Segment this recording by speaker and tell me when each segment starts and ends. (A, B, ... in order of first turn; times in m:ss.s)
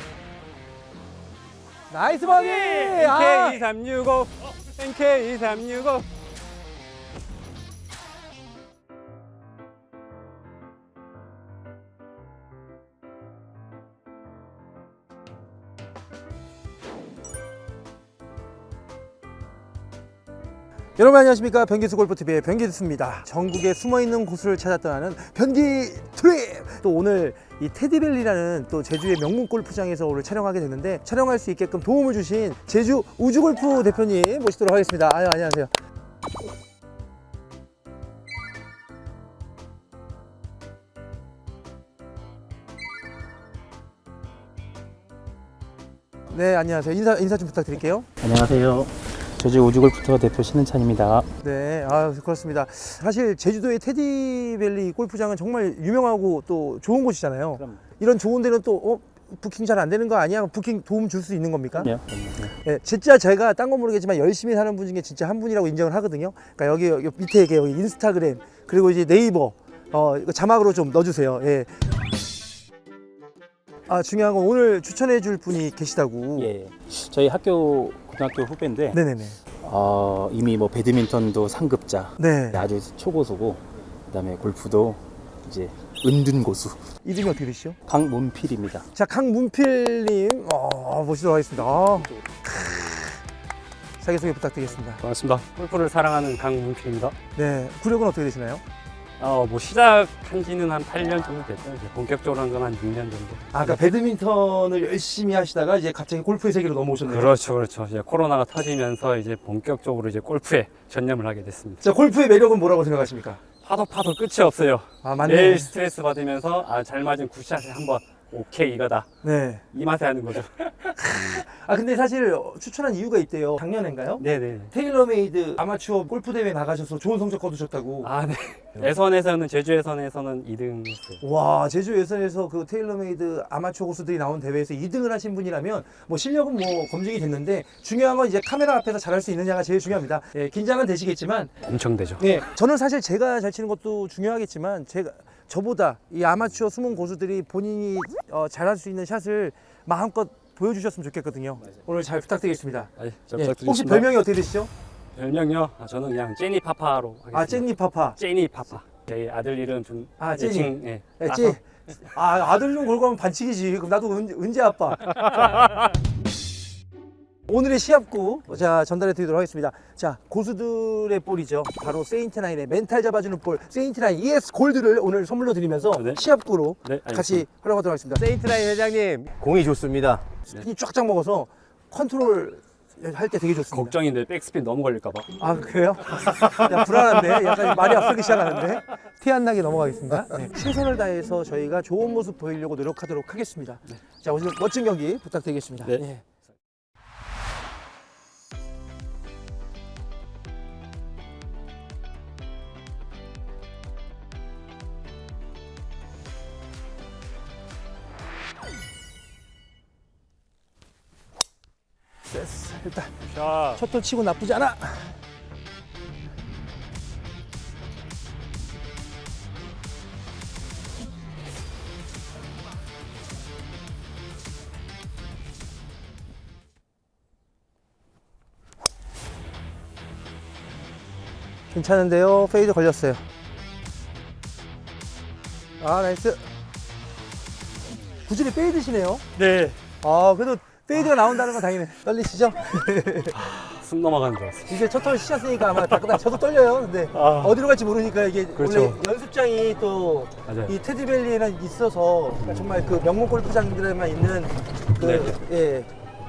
0:01.9-0:03.6 A
0:02.2-0:06.0 B
0:21.0-0:35.7 A
0:46.3-0:48.1 A
0:48.2-0:51.3 C
0:51.4-1:01.9 A
1:01.8-1:02.5 C
1:02.6-1:11.8 A
1:13.9-1:16.5 A
1:16.4-1:19.0 C
1:18.9-1:19.4 A
1:19.6-1:26.8 C
1:22.2-1:22.6 A
1:27.0-1:27.8 A
1:27.9-1:28.9 C
1:28.9-1:33.2 A
1:31.6-1:33.0 C
1:34.0-1:35.0 A
1:35.0-1:37.2 B
1:37.4-1:38.6 A
1:39.2-1:43.8 B
1:43.5-1:47.3 A
1:47.1-1:51.8 B
1:51.8-1:53.4 A
1:53.6-1:59.1 B
1:55.0-1:55.7 A
1:59.2-1:59.6 A
1:59.7-2:01.4 B
2:01.0-2:08.1 A
2:04.2-2:04.7 B
2:08.0-2:11.2 B
2:11.2-2:21.5 A
2:21.7-2:22.4 B
2:22.2-2:34.7 A
2:33.0-2:34.1 B
2:35.1-2:41.6 B
2:37.3-2:38.2 A
2:40.2-2:45.6 A
2:45.2-2:45.7 B
2:47.5-2:58.3 A
2:56.0-2:56.2 B
2:56.8-2:57.4 B
2:58.2-3:00.3 C
3:00.5-3:04.0 A
3:03.7-3:05.3 B
3:05.4-3:16.1 A
3:06.2-3:08.6 B
3:15.9-3:16.2 B
3:32.3-3:33.1 A
3:33.2-3:33.8 B
3:33.8-3:35.2 A
3:51.7-3:53.2 A
3:55.8-3:56.4 A
3:58.3-3:59.2 A
3:59.4-3:59.8 B
4:00.0-4:03.4 A
4:03.4-4:05.0 B
4:04.7-4:15.9 A
4:05.8-4:06.2 B
4:07.1-4:07.6 B
4:08.6-4:09.0 B
4:10.5-4:10.7 B
4:15.0-4:15.3 B